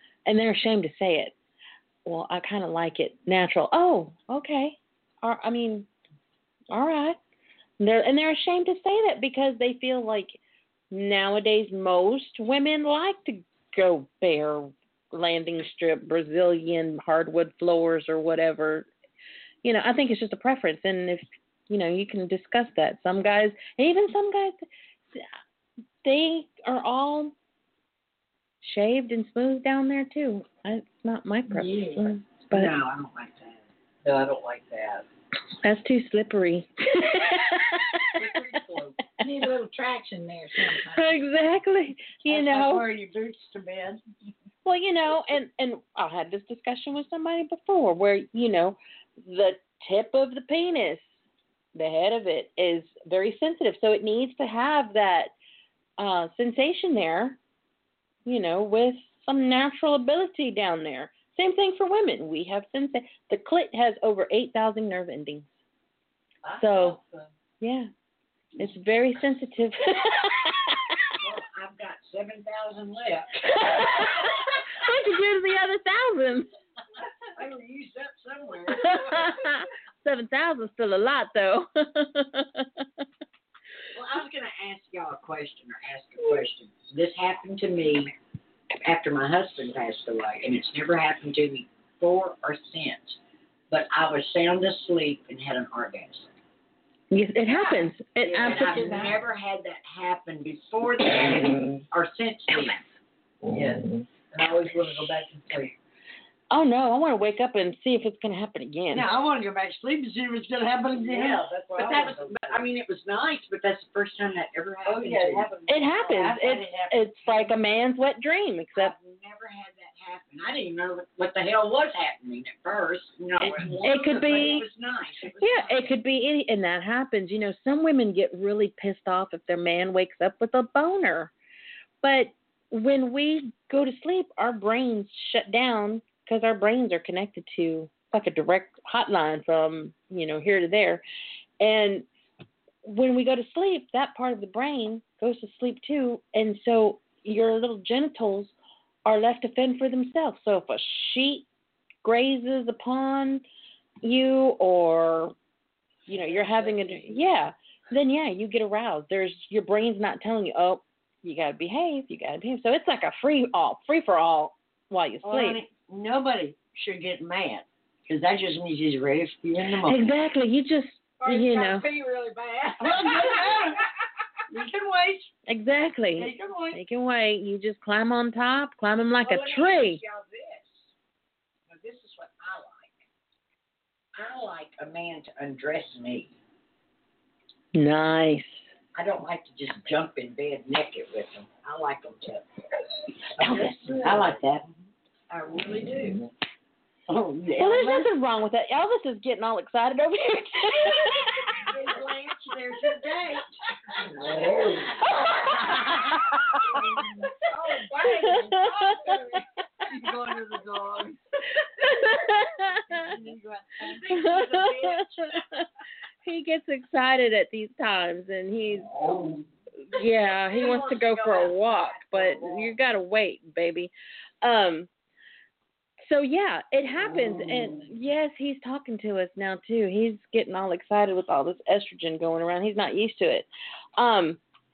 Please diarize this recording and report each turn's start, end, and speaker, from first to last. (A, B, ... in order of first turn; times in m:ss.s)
0:00.2-0:01.3 A
0:02.0-0:05.9 A
0:06.7-0:07.2 A
0:07.8-0:10.4 A
0:10.9-0:18.9 A
0:19.6-0:25.2 A
0:26.0-0:27.3 A
0:28.6-0:32.7 A
0:31.5-0:32.0 B
0:32.5-0:33.6 C
0:34.0-0:35.0 D
0:35.6-0:38.2 A
0:38.1-0:39.0 D
0:39.2-0:41.2 B
0:40.8-0:42.9 A
0:42.3-0:44.0 E
0:44.6-0:51.1 A
0:51.7-0:55.3 A
0:56.0-0:57.4 A
0:58.2-1:05.5 A
1:06.4-1:07.3 D
1:06.6-1:07.0 A
1:07.6-1:07.9 A
1:08.6-1:10.9 A
1:11.2-1:13.5 C
1:13.4-1:16.5 A
1:17.3-1:19.3 C
1:18.7-1:22.8 A
1:23.9-1:28.1 C
1:28.8-1:33.2 C
1:33.7-1:36.3 C
1:37.1-1:38.9 A
1:37.5-1:39.2 B
1:38.2-1:42.8 C
1:43.5-1:45.8 D
1:46.5-1:49.1 A
1:48.9-1:51.9 E
1:51.1-1:56.4 C
1:51.2-1:52.6 D
1:54.8-1:55.9 D
1:55.7-1:58.9 A
1:56.0-1:57.5 E
1:58.7-2:05.9 C
2:03.4-2:04.6 A
2:05.4-2:11.3 A
2:12.0-2:21.0 A
2:21.6-2:22.1 A
2:22.8-2:31.4 A
2:32.0-2:33.4 A
2:34.0-2:35.3 A
2:36.1-2:45.6 A
2:45.2-2:50.1 E
2:49.8-2:51.8 A
2:51.2-2:53.8 B
2:52.8-2:53.8 E
2:54.5-2:55.3 E
2:55.5-3:00.0 A
2:56.2-2:56.8 E
2:59.2-3:00.9 C
3:01.7-3:03.0 C
3:04.1-3:06.3 C
3:07.7-3:08.6 A
3:08.9-3:12.4 C
3:13.4-3:14.7 C
3:13.4-3:14.0 A
3:13.8-3:14.3 D
3:14.0-3:14.4 E
3:15.5-3:16.0 E
3:15.7-3:16.1 C
3:17.1-3:18.1 E
3:17.6-3:21.6 A
3:21.6-3:23.5 E
3:21.6-3:22.5 C
3:24.3-3:24.7 B
3:24.3-3:24.7 E
3:25.7-3:26.0 E
3:26.7-3:29.4 B
3:29.9-3:31.2 E
3:31.8-3:33.0 A
3:33.0-3:35.0 E
3:34.1-3:35.2 A
3:34.6-3:35.0 C
3:36.2-3:39.0 A
3:39.9-3:43.9 A
3:40.2-3:42.7 C
3:44.4-3:44.9 A
3:46.0-3:54.4 A